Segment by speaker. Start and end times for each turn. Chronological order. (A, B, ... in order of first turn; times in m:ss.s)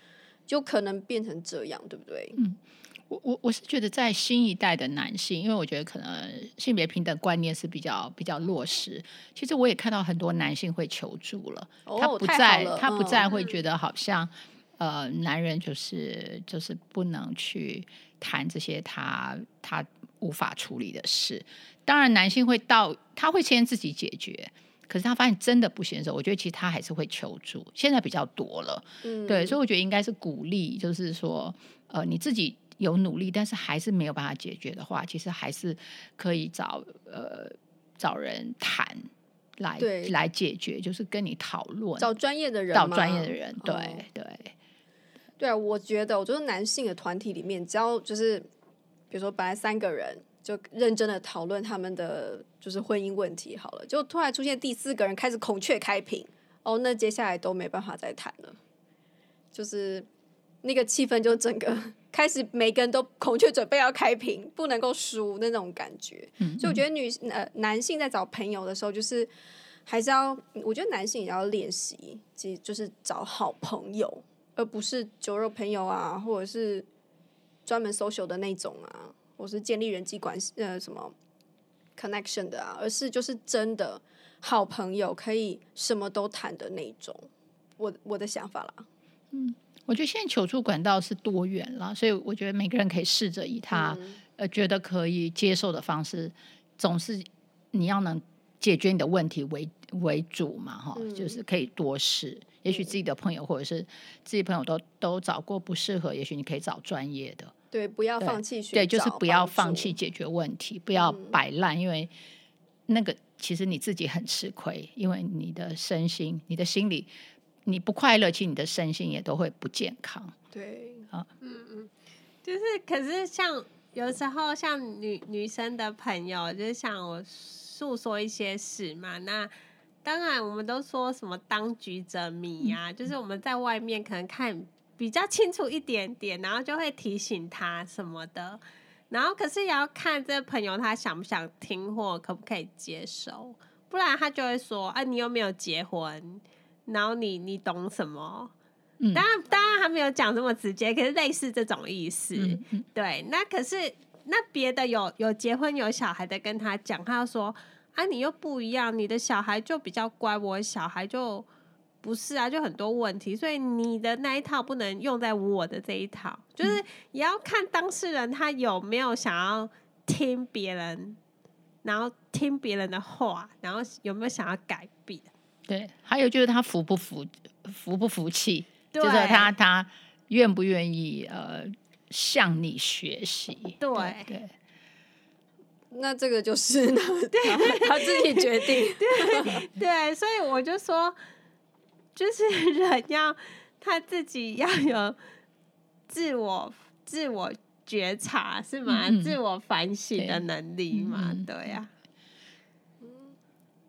0:00.5-0:02.4 A
0:02.4-0:42.1 B
0:11.8-0:13.4 A
0:29.0-0:29.6 A
0:39.8-0:40.2 A
0:42.0-0:44.1 A
0:42.7-0:44.5 B
0:45.4-0:48.5 A
0:49.1-0:58.6 A
0:59.5-1:00.1 A
1:00.6-1:09.3 A
1:06.4-1:06.8 B
1:09.9-1:16.9 A
1:17.7-1:21.1 A
1:22.0-1:27.3 A
1:27.8-1:28.9 A
1:29.3-1:47.5 B
1:33.7-1:34.2 A
1:41.0-1:41.4 A
1:47.7-1:50.0 A
1:48.2-1:52.1 B
1:50.9-1:51.4 A
1:52.9-1:57.1 B
1:57.6-2:00.4 B
2:00.5-2:01.1 A
2:01.4-2:01.9 C
2:02.4-2:09.5 C
2:10.0-2:28.5 C
2:29.0-2:29.2 B
2:29.1-2:41.5 C
2:32.4-2:32.8 B
2:42.0-2:51.2 C
2:51.8-2:55.3 C
2:55.7-3:04.5 B
2:58.9-2:59.5 C
3:03.8-3:04.3 C
3:05.9-3:09.6 A
3:07.4-3:11.2 C
3:12.2-3:15.2 C
3:16.1-3:21.9 C
3:18.9-3:19.4 B
3:20.2-3:21.8 B
3:23.0-3:23.3 A